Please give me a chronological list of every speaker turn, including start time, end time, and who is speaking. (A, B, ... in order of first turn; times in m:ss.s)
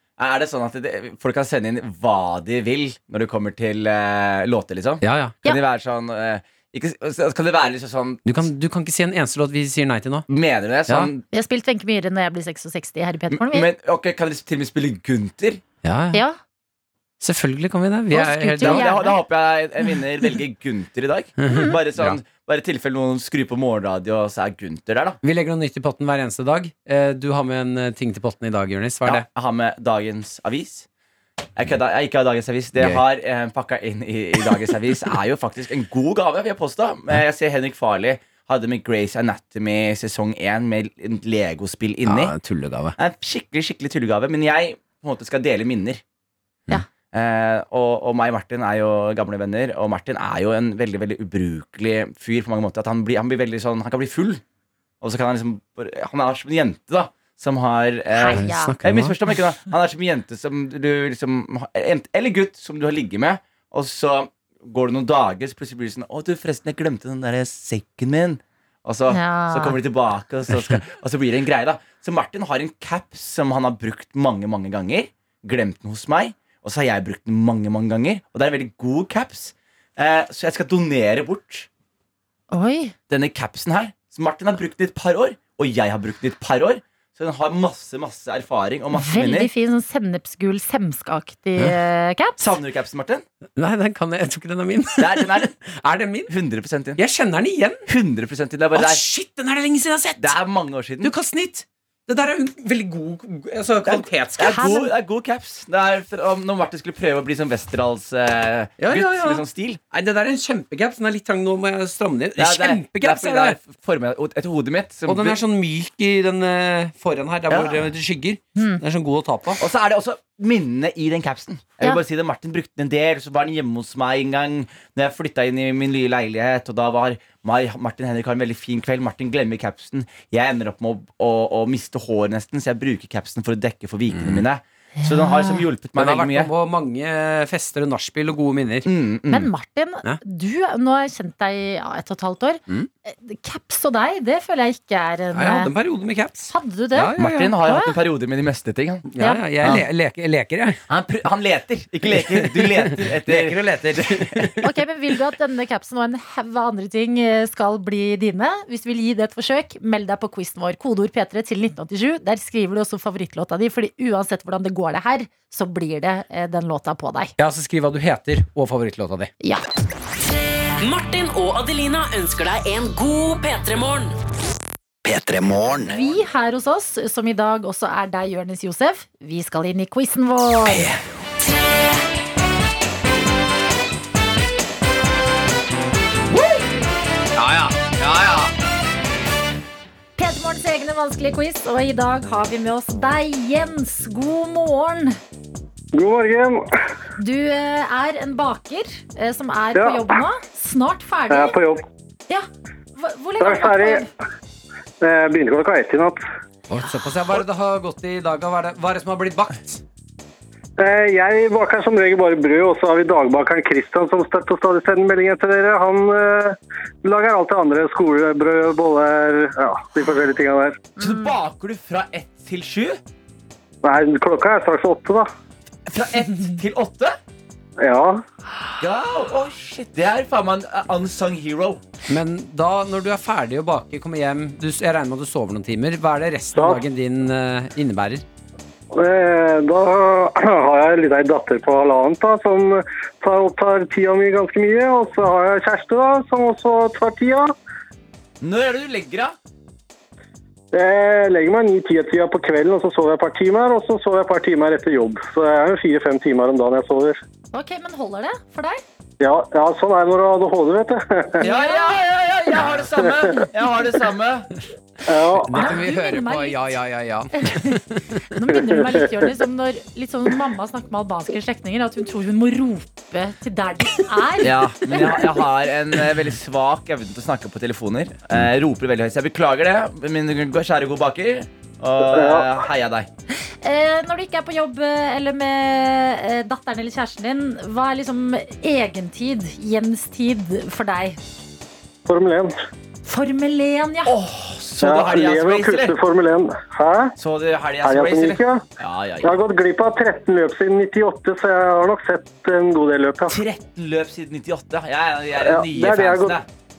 0:00.2-0:08.4 A
0:05.0-0:05.3 B
0:08.2-0:10.2 B
0:10.3-0:11.2 A
0:11.3-0:13.7 C
0:13.3-0:15.6 A
0:15.8-0:16.2 B
0:17.2-0:18.9 B
0:18.1-0:19.2 C
0:18.6-0:25.2 A
0:21.4-0:22.2 B
0:21.5-0:21.7 C
0:25.2-0:29.2 B
0:29.0-0:30.8 A
0:31.6-0:42.3 A
0:42.0-0:42.9 B
0:43.0-0:46.0 A
0:47.1-0:54.4 A
0:55.0-1:21.7 A
0:58.1-0:58.8 C
0:58.3-0:59.2 B
1:09.1-1:09.8 C
1:22.5-1:22.9 C
1:23.1-1:29.5 A
1:28.9-1:32.4 C
1:32.4-1:33.2 A
1:33.6-1:36.3 B
1:35.0-1:35.5 A
1:36.3-1:37.0 A
1:37.0-1:37.8 B
1:37.9-1:39.0 A
1:38.7-1:40.3 B
1:40.2-1:41.1 A
1:41.0-1:44.7 B
1:43.8-1:49.8 A
1:44.5-1:44.8 C
1:48.8-1:53.6 B
1:52.4-1:55.4 A
1:55.1-1:59.6 B
1:57.5-1:57.9 A
1:59.6-2:16.5 A
2:14.1-2:14.4 B
2:15.0-2:15.6 C
2:16.0-2:18.9 B
2:18.8-2:19.5 A
2:19.3-2:25.7 C
2:25.3-2:27.5 B
2:26.5-2:27.9 C
2:27.2-2:29.0 A
2:29.1-2:30.8 B
2:29.2-2:29.4 C
2:30.9-2:34.6 A
2:32.2-2:34.6 B
2:34.6-2:47.3 C
2:47.4-2:49.3 B
2:50.8-2:54.2 D
2:55.0-2:56.0 D
2:55.8-3:00.9 C
3:07.4-3:08.5 B
3:10.2-3:15.2 C
3:15.9-3:16.6 E
3:17.2-3:21.6 C
3:19.8-3:20.0 E
3:21.3-3:21.8 E
3:22.3-3:24.1 C
3:23.4-3:24.0 E
3:25.0-3:26.2 E
3:26.7-3:29.8 B
3:30.8-3:40.8 E
3:41.0-3:43.0 A
3:43.8-3:45.3 E
3:45.9-3:47.2 A
3:47.8-3:48.2 E
3:48.8-3:51.8 A
3:52.1-3:58.2 B
3:56.5-3:56.8 E
3:58.9-4:07.5 E
4:08.4-4:09.3 A
4:10.7-4:17.2 E
4:17.5-4:18.8 C
4:19.2-4:21.4 E
4:21.4-4:22.0 C
4:21.4-4:24.5 A
4:25.1-4:25.5 E
4:25.4-4:28.2 B
4:25.5-4:26.8 C
4:27.4-4:35.3 C
4:28.6-4:29.0 E
4:34.4-4:43.1 A
4:42.0-4:42.5 E
4:43.6-4:51.2 C
4:52.1-4:52.6 E
4:53.0-4:54.2 C
4:54.0-4:56.0 A
4:54.8-4:57.1 E
4:57.2-4:59.4 A
4:57.8-4:58.6 E
4:59.2-5:03.4 E
5:03.3-5:06.4 A
5:05.4-5:06.4 E